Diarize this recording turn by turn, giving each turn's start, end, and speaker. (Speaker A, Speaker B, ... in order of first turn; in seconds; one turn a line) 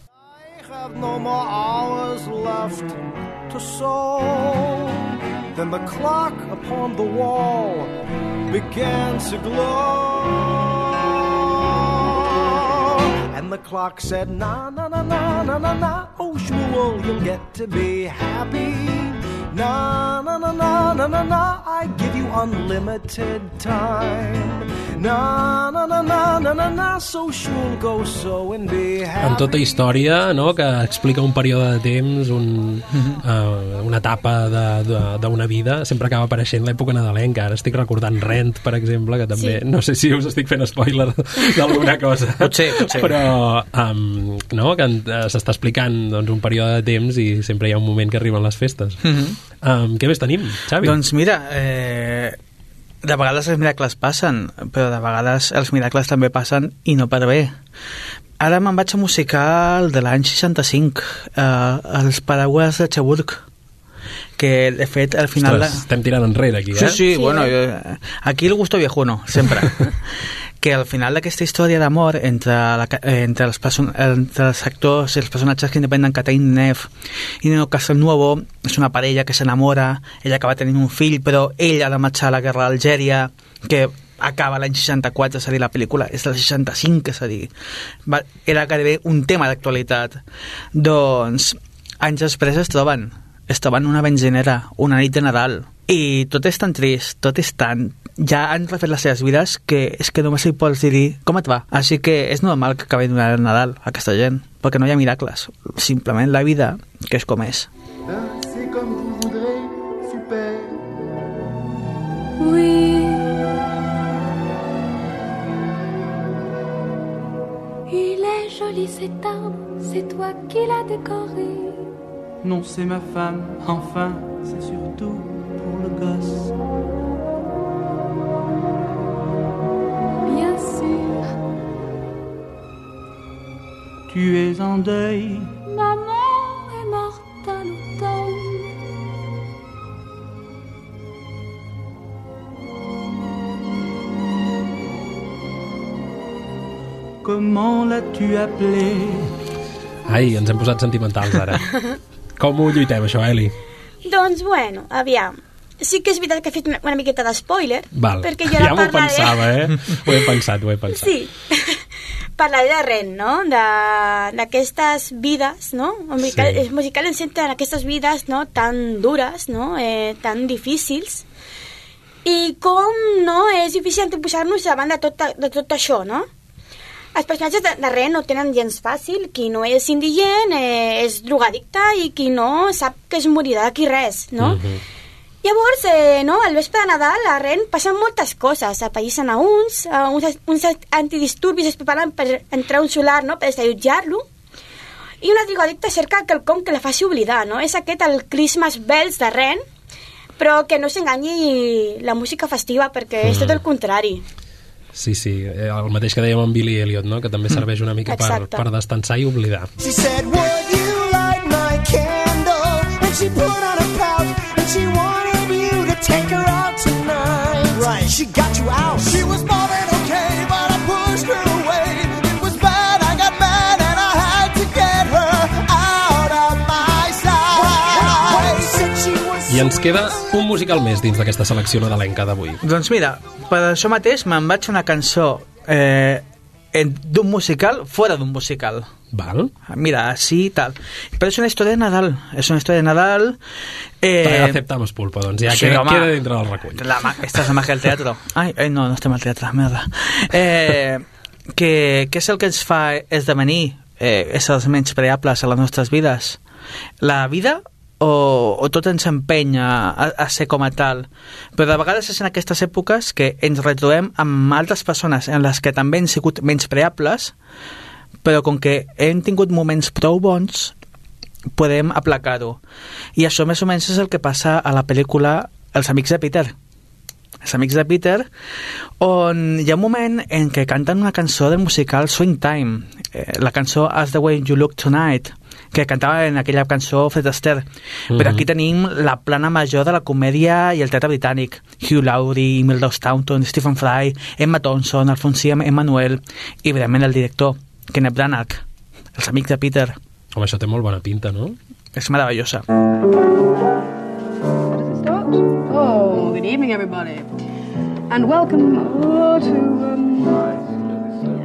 Speaker A: 0.4-5.0
Speaker A: 5.5-7.9
Speaker A: 8.5-30.1
Speaker B: 29.2-49.1
Speaker C: 42.4-43.3
Speaker C: 49.0-49.4
Speaker B: 49.6-51.0
Speaker C: 50.8-52.4
Speaker C: 53.0-57.6
Speaker C: 58.4-63.4
Speaker C: 64.4-65.8
Speaker B: 65.4-67.0
Speaker C: 66.7-70.0
Speaker D: 67.1-67.5
Speaker C: 70.6-87.5
Speaker C: 88.1-90.2
Speaker C: 90.7-107.7
Speaker A: 108.1-110.8
Speaker E: 112.4-113.3
Speaker E: 117.9-121.9
Speaker F: 122.4-126.5
Speaker E: 130.2-131.3
Speaker F: 134.1-135.6
Speaker E: 135.6-138.8
Speaker F: 147.2-149.3
Speaker B: 150.1-151.7
Speaker B: 152.4-153.6
Speaker D: 154.0-159.5
Speaker B: 157.9-161.2
Speaker D: 160.1-160.4
Speaker D: 160.9-161.8
Speaker D: 162.4-171.2
Speaker B: 166.2-166.7
Speaker D: 172.2-176.3
Speaker D: 177.2-184.6
Speaker B: 184.4-184.8
Speaker D: 185.4-194.3
Speaker D: 195.2-199.6
Speaker D: 200.4-204.2
Speaker B: 203.2-203.6
Speaker B: 204.9-209.7
Speaker D: 208.1-208.6
Speaker A: 209.8-229.8
Speaker B: 229.5-232.6
Speaker C: 232.6-238.9
Speaker B: 239.1-239.5
Speaker C: 239.7-243.4
Speaker C: 244.0-244.6
Speaker B: 244.2-246.9
Speaker C: 245.5-246.2
Speaker C: 246.7-256.4
Speaker C: 257.0-267.3
Speaker C: 268.2-270.8
Speaker C: 271.5-272.6
Speaker C: 273.2-276.5
Speaker C: 277.4-278.3
Speaker C: 279.0-298.6
Speaker B: 288.1-288.4
Speaker C: 299.1-300.0
Speaker B: 300.3-301.6
Speaker C: 302.0-302.6
Speaker G: 305.0-307.4
Speaker G: 308.1-310.5